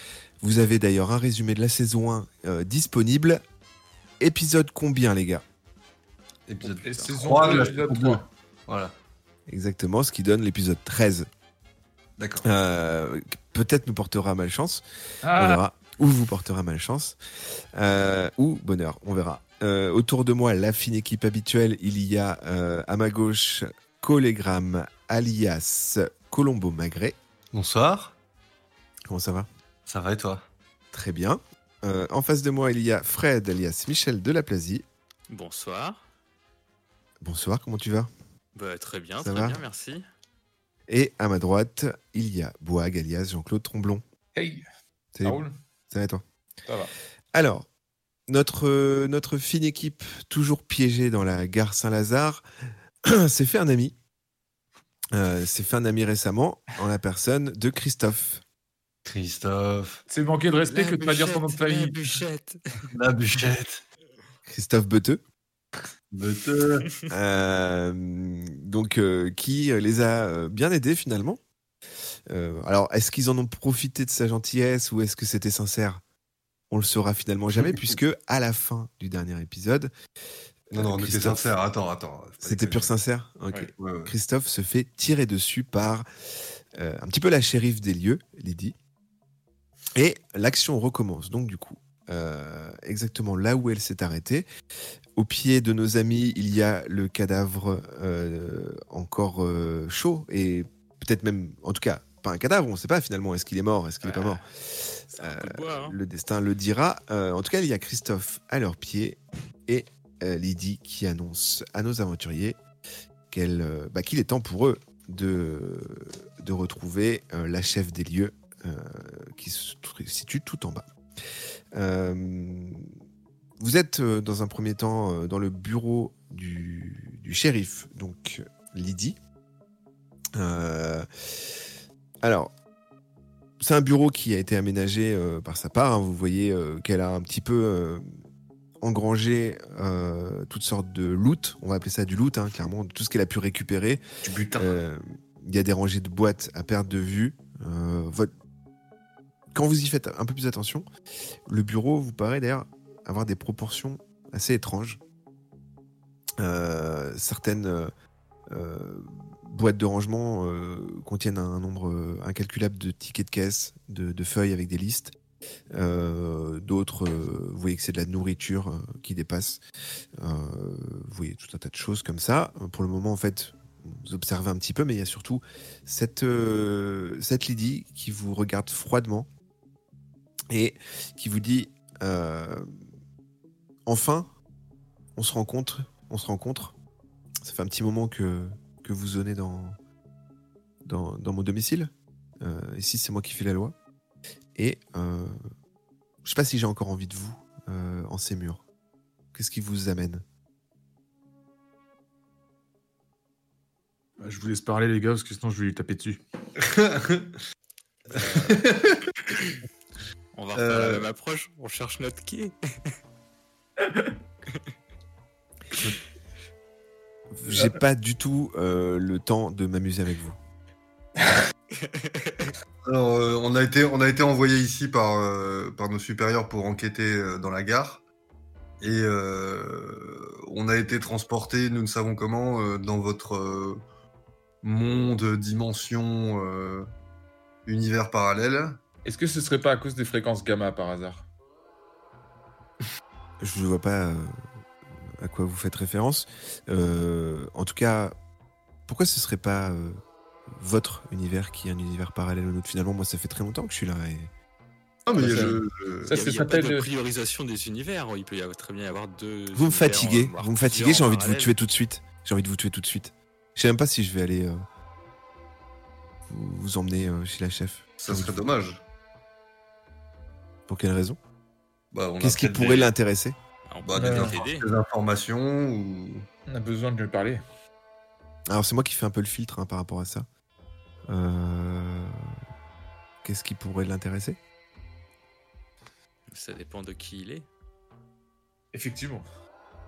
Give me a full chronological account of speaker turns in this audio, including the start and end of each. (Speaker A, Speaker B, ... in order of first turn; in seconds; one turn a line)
Speaker A: 0.4-3.4
Speaker A: 4.2-5.4
Speaker B: 6.5-8.9
Speaker C: 6.7-8.2
Speaker A: 9.5-11.3
Speaker B: 12.2-12.5
Speaker A: 12.4-17.2
Speaker C: 15.2-15.6
Speaker A: 17.8-27.2
Speaker B: 27.5-28.1
Speaker A: 29.1-29.5
Speaker B: 29.9-30.5
Speaker A: 30.9-34.8
Speaker D: 35.3-36.0
Speaker A: 37.2-38.1
Speaker D: 38.5-40.0
Speaker A: 39.2-39.6
Speaker A: 40.9-44.0
Speaker C: 44.3-44.6
Speaker A: 45.1-46.2
Speaker C: 45.2-45.5
Speaker C: 46.6-46.9
Speaker A: 47.3-47.7
Speaker A: 48.3-52.5
Speaker A: 53.1-54.0
Speaker A: 55.1-58.4
Speaker B: 59.0-60.0
Speaker C: 60.1-62.2
Speaker D: 60.7-62.9
Speaker B: 63.0-63.8
Speaker A: 64.5-65.2
Speaker B: 66.1-66.9
Speaker A: 67.1-71.4
Speaker A: 72.3-76.0
Speaker A: 76.7-79.9
Speaker A: 80.7-81.5
Speaker B: 80.7-82.9
Speaker A: 82.4-86.1
Speaker B: 83.8-84.1
Speaker A: 86.8-88.8
Speaker A: 90.0-94.5
Speaker A: 95.2-112.6
Speaker D: 104.0-104.4
Speaker D: 105.1-106.0
Speaker A: 113.3-120.9
Speaker A: 121.7-122.9
Speaker A: 123.6-129.2
Speaker A: 130.3-131.7
Speaker A: 132.2-132.5
Speaker A: 133.6-138.1
Speaker A: 138.8-144.0
Speaker B: 144.3-144.6
Speaker A: 144.6-148.3
Speaker A: 149.5-150.9
Speaker A: 151.5-155.0
Speaker A: 156.4-157.9
Speaker A: 158.5-165.1
Speaker A: 165.7-169.6
Speaker A: 170.2-179.3
Speaker A: 180.5-182.7
Speaker A: 183.9-184.3
Speaker A: 185.2-186.8
Speaker A: 187.4-189.8
Speaker A: 190.8-193.8
Speaker A: 194.6-195.4
Speaker A: 196.2-198.6
Speaker A: 199.3-200.2
Speaker C: 204.2-206.2
Speaker B: 206.6-207.3
Speaker D: 208.1-208.7
Speaker B: 208.1-209.0
Speaker D: 210.3-212.6
Speaker B: 210.6-211.1
Speaker C: 213.8-214.2
Speaker A: 217.3-220.4
Speaker D: 221.7-222.5
Speaker B: 222.8-228.1
Speaker B: 228.8-233.8
Speaker B: 234.6-236.9
Speaker B: 237.7-238.8
Speaker C: 239.1-241.3
Speaker A: 243.4-244.3
Speaker A: 245.2-248.2
Speaker A: 248.9-254.3
Speaker B: 255.1-256.1
Speaker C: 255.2-256.9
Speaker D: 256.1-261.6
Speaker A: 259.6-264.6
Speaker A: 266.3-268.5
Speaker B: 268.0-268.8
Speaker A: 270.7-271.2
Speaker B: 271.9-272.9
Speaker A: 272.2-273.4
Speaker D: 273.7-274.7
Speaker B: 273.9-276.3
Speaker C: 273.9-274.4
Speaker C: 276.5-277.4
Speaker A: 278.5-280.3
Speaker A: 281.1-282.2
Speaker A: 283.2-284.4
Speaker D: 286.3-287.5
Speaker C: 288.7-289.2